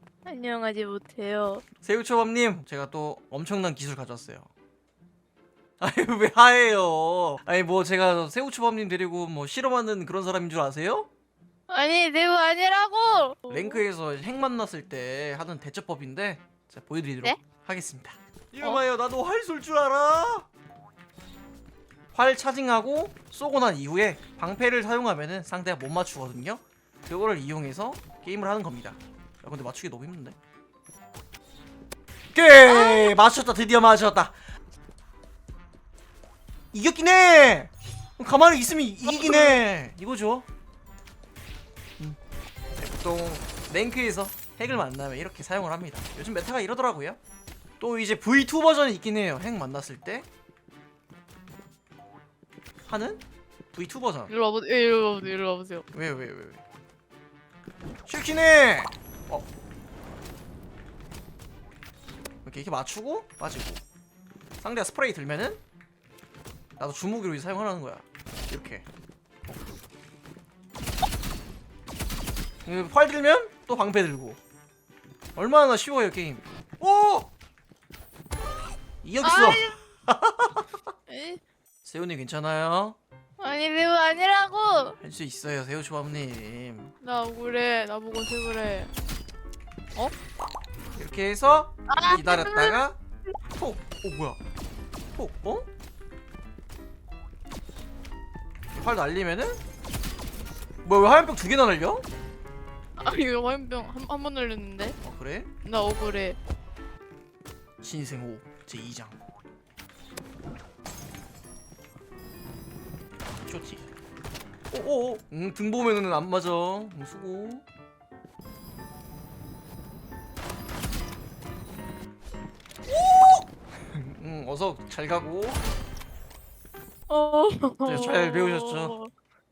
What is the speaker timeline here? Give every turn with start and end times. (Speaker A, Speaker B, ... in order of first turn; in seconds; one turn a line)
Speaker A: 0.2-1.6
Speaker B: 1.8-4.5
Speaker B: 5.8-11.1
Speaker A: 11.7-13.8
Speaker B: 13.5-20.5
Speaker B: 22.1-30.4
Speaker B: 32.3-34.4
Speaker A: 32.7-33.1
Speaker B: 36.7-40.5
Speaker B: 42.8-47.2
Speaker B: 47.8-50.3
Speaker B: 52.9-53.2
Speaker B: 53.7-54.3
Speaker A: 54.3-55.8
Speaker B: 55.9-56.6
Speaker B: 58.0-59.5
Speaker B: 62.4-63.8
Speaker B: 64.6-65.6
Speaker B: 66.8-68.8
Speaker B: 72.7-74.4
Speaker B: 75.3-77.3
Speaker B: 79.0-80.7
Speaker A: 79.2-79.8
Speaker A: 81.1-81.4
Speaker B: 81.8-83.0
Speaker A: 83.4-85.0
Speaker B: 85.0-86.9
Speaker A: 87.0-88.9
Speaker B: 91.0-93.0
Speaker A: 91.9-92.8
Speaker B: 93.5-94.4
Speaker B: 95.1-95.7
Speaker B: 98.7-99.6
Speaker B: 100.8-102.0
Speaker A: 103.0-105.0
Speaker B: 105.0-105.5
Speaker A: 105.6-106.4
Speaker B: 107.8-109.2
Speaker B: 113.5-113.8
Speaker B: 114.7-117.6
Speaker B: 122.9-125.6
Speaker A: 127.1-129.1
Speaker B: 127.8-128.9